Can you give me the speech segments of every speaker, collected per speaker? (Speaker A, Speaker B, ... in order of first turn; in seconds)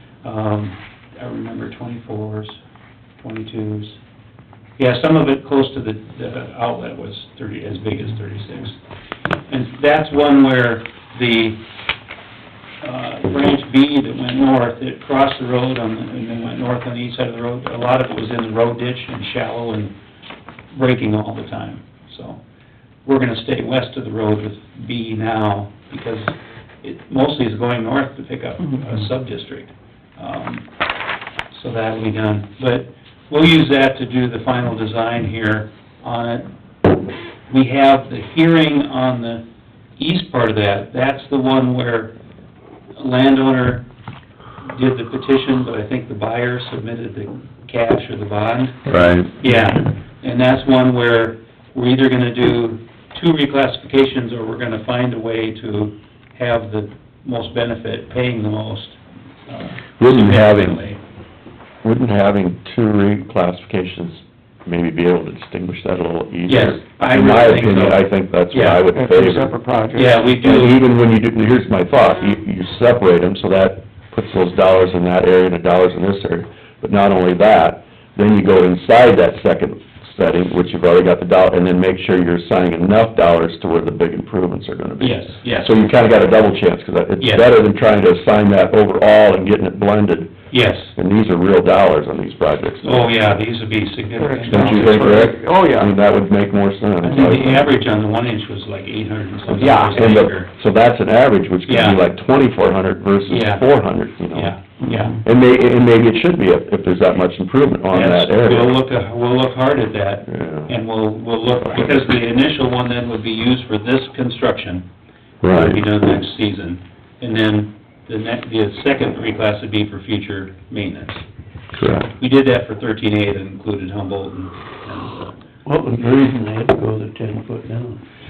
Speaker A: 0.2-2.6, 3.2-4.0, 4.8-8.8, 9.5-11.6, 12.8-19.9, 20.7-22.4, 23.0-30.7, 31.5-36.5, 37.5-39.5, 40.0-42.1, 42.9-43.9, 44.6-61.0, 66.5-68.8, 69.9-70.8, 85.0-85.8, 87.2-87.5, 90.5-90.9, 92.8-95.2, 97.0-100.5, 101.7-102.0, 103.3-103.6, 104.3-105.2, 107.9-114.9, 115.5-121.2, 121.8-125.3
Speaker B: 48.9-49.4, 60.0-60.8, 61.8-69.5, 70.3-90.3, 90.9-93.1, 94.5-97.7, 99.6-104.6, 105.2-108.8, 110.3-110.7, 115.4-115.8, 121.7-122.1
Speaker C: 68.9-70.2, 94.2-95.9, 99.6-99.9, 104.8-105.1
Speaker D: 125.6-128.0